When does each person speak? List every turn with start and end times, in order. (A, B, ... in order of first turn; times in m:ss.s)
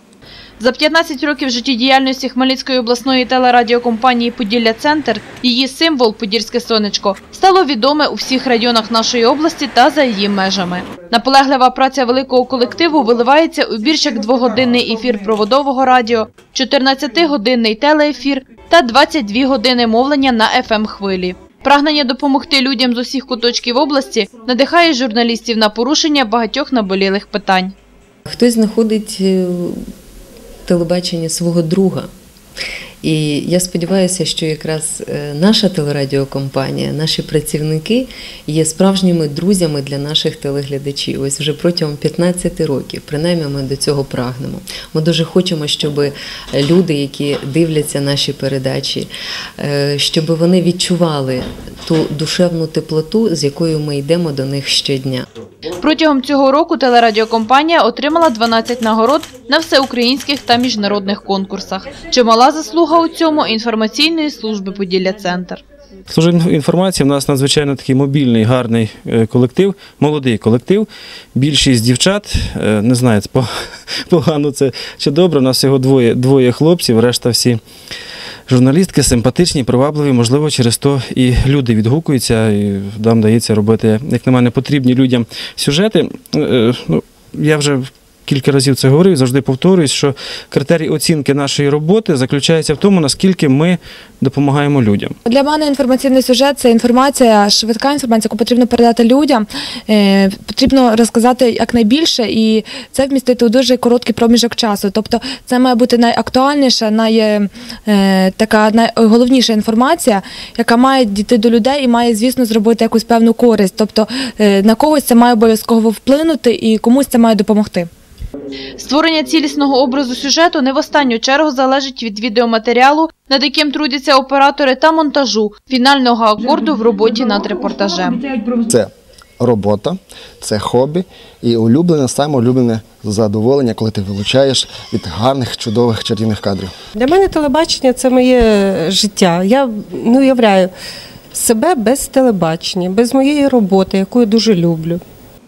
0:00.6-0:27.7 A
0:28.3-0:29.8 B
0:30.6-0:32.1 B
0:33.0-0:55.2 B
0:55.8-1:05.6 A
1:06.1-1:13.4 C
1:14.1-1:17.6 C
1:18.5-1:35.1 C
1:35.6-1:39.4 D
1:39.9-1:57.8 D
1:58.8-2:08.3 A
2:08.7-2:16.7 E
2:16.9-2:20.7 F
2:21.3-2:25.0 F